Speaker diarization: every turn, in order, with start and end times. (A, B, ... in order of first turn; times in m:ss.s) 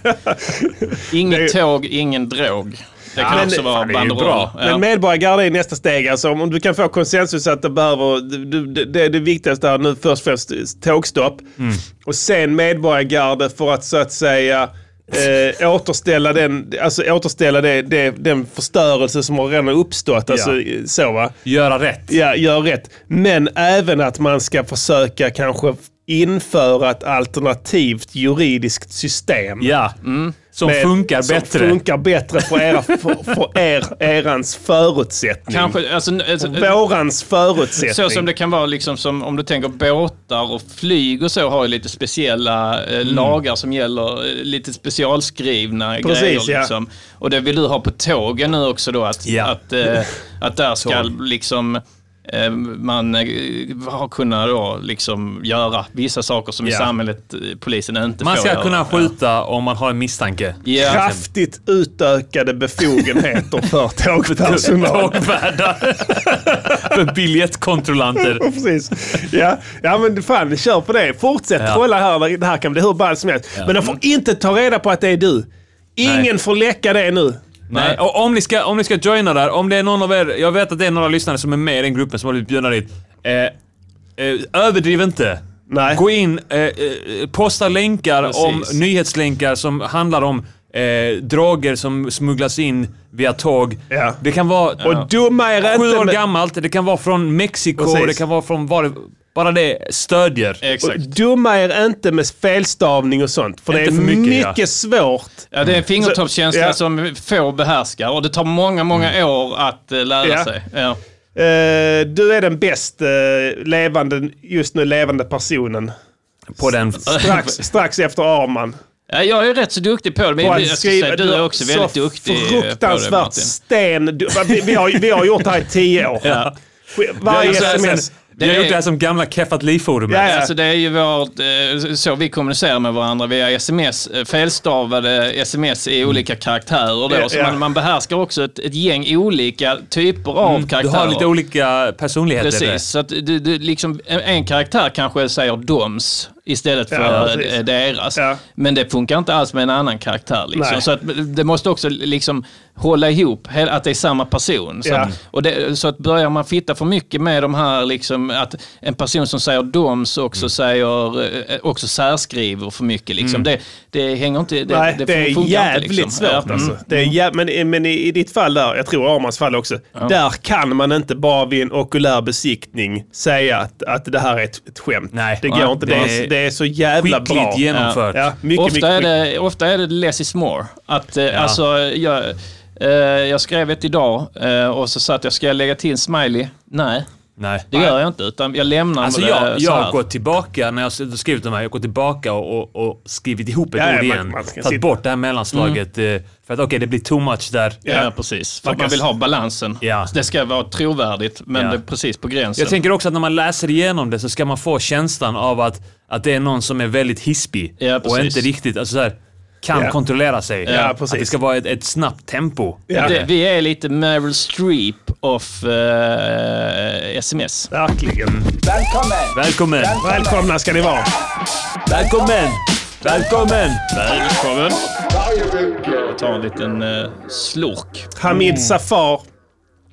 0:00.4-0:01.5 A
0:01.1-0:04.8 B
0:03.2-0:04.5 C
0:03.2-0:03.7 A
0:04.6-0:21.3 A
0:20.3-0:20.5 C
0:21.4-0:22.1 C
0:22.1-0:29.7 A
0:29.6-0:30.0 C
0:30.0-0:30.3 B
0:30.5-0:31.8 C
0:30.6-0:35.8 A
0:35.5-0:36.8 B
0:36.4-0:38.2 A
0:37.8-0:59.1 B
0:43.0-0:43.4 C
0:46.0-0:46.7 A
0:49.2-0:49.5 C
0:50.8-0:51.1 C
0:56.6-0:56.9 C
0:58.2-1:01.2 C
1:00.6-1:01.0 B
1:00.8-1:05.3 A
1:04.2-1:08.4 C
1:08.3-1:17.4 A
1:17.7-1:23.5 C
1:24.2-1:35.0 C
1:25.7-1:26.0 A
1:28.2-1:28.7 B
1:33.9-1:34.2 A
1:34.8-1:36.2 A
1:35.6-1:40.6 C
1:37.8-1:38.2 A
1:40.6-1:41.1 B
1:40.8-1:46.8 A
1:43.7-1:44.6 C
1:45.5-1:51.0 B
1:50.2-1:50.5 A
1:51.3-1:55.9 A
1:56.6-1:57.2 C
1:56.6-1:58.8 A
1:57.1-1:57.6 B
1:59.1-2:03.5 B
2:00.4-2:06.4 A
2:06.2-2:06.5 B
2:06.2-2:06.5 C
2:06.9-2:08.1 A
2:07.2-2:10.3 C
2:07.2-2:08.8 B
2:10.1-2:10.5 A
2:10.2-2:21.3 B
2:17.1-2:17.6 A
2:20.4-2:22.8 C
2:22.4-2:47.1 B
2:26.9-2:27.6 A
2:30.5-2:30.8 A
2:34.8-2:35.1 A
2:44.7-2:59.1 A
2:55.1-2:56.3 C
2:55.4-2:56.1 B
2:57.0-2:58.3 C
2:57.7-2:58.0 B
2:58.5-3:07.1 B
3:01.3-3:01.6 C
3:07.4-3:07.7 C
3:07.7-3:10.0 B
3:09.0-3:17.8 C
3:13.8-3:14.8 A
3:15.5-3:15.8 B
3:17.8-3:22.8 B
3:18.6-3:19.0 A
3:19.8-3:20.1 C
3:22.6-3:33.3 C
3:27.8-3:28.5 B
3:30.6-3:31.0 B
3:30.6-3:31.3 A
3:32.9-3:33.2 A
3:32.9-3:37.7 B
3:37.7-3:38.4 A
3:38.2-3:40.1 C
3:40.0-3:41.1 A
3:41.9-3:43.8 C
3:43.9-3:44.8 B
3:45.8-3:48.1 B
3:48.2-3:49.2 A
3:48.3-3:48.7 C